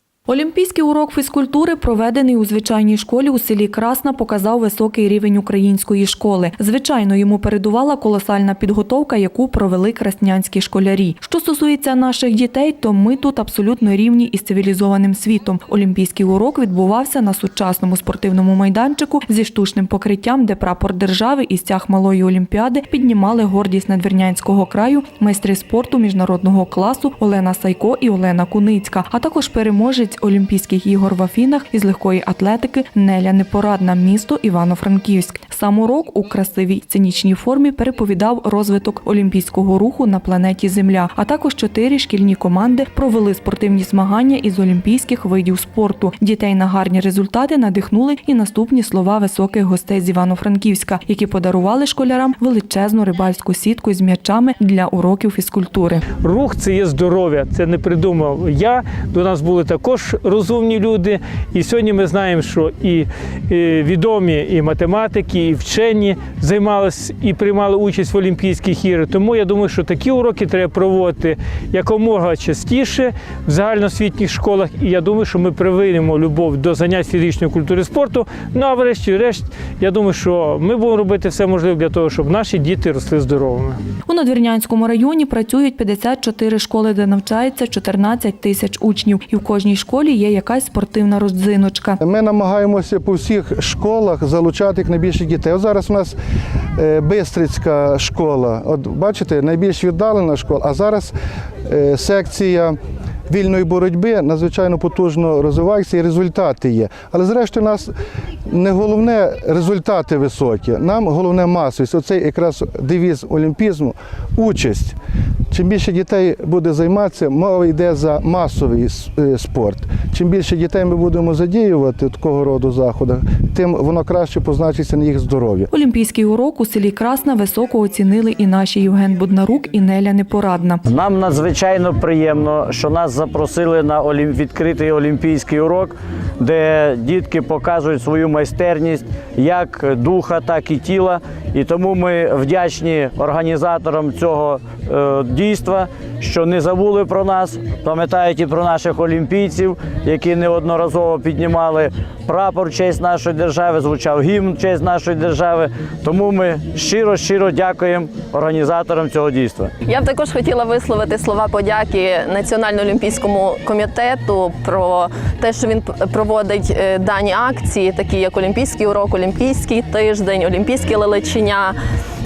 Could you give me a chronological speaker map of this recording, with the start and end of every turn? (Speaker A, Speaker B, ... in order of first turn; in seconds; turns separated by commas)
Speaker A: 0.3-56.1, Speaker B: 56.2-83.8, Speaker A: 84.1-92.0, Speaker C: 92.0-96.2, Speaker C: 96.8-101.1, Speaker C: 101.7-102.8, Speaker C: 103.3-107.9, Speaker C: 108.5-115.0, Speaker C: 115.5-125.7, Speaker A: 125.7-130.8, Speaker D: 130.9-159.7, Speaker E: 159.8-171.8